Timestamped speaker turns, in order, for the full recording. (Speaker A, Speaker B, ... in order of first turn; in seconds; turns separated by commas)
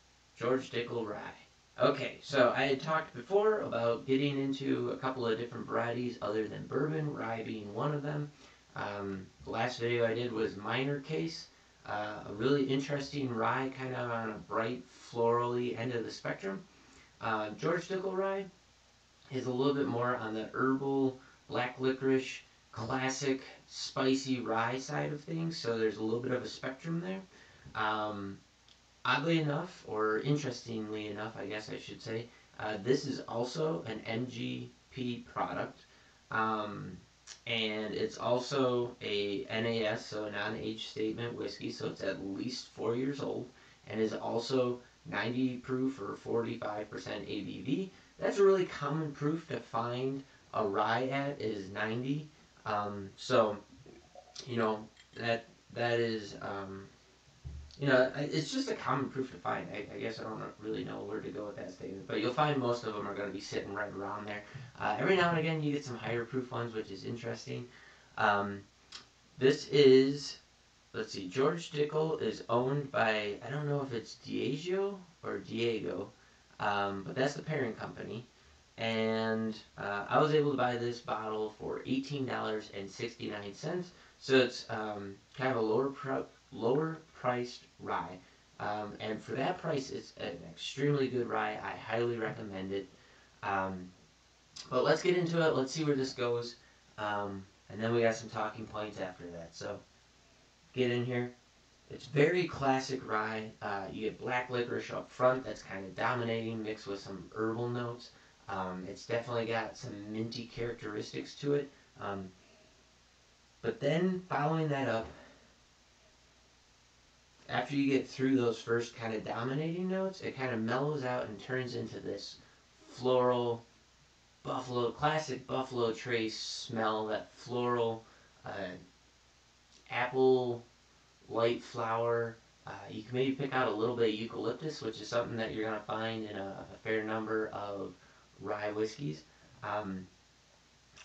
Speaker A: 0.3-16.6, Speaker A: 17.2-18.5, Speaker A: 19.3-27.2, Speaker A: 27.7-28.4, Speaker A: 29.0-53.6, Speaker A: 54.4-56.9, Speaker A: 57.8-68.7, Speaker A: 69.4-70.4, Speaker A: 70.9-92.9, Speaker A: 93.4-93.9, Speaker A: 94.7-99.8, Speaker A: 100.7-101.3, Speaker A: 101.9-112.3, Speaker A: 113.6-115.1, Speaker A: 117.5-123.6, Speaker A: 124.4-128.8, Speaker A: 129.9-130.6, Speaker A: 131.2-140.1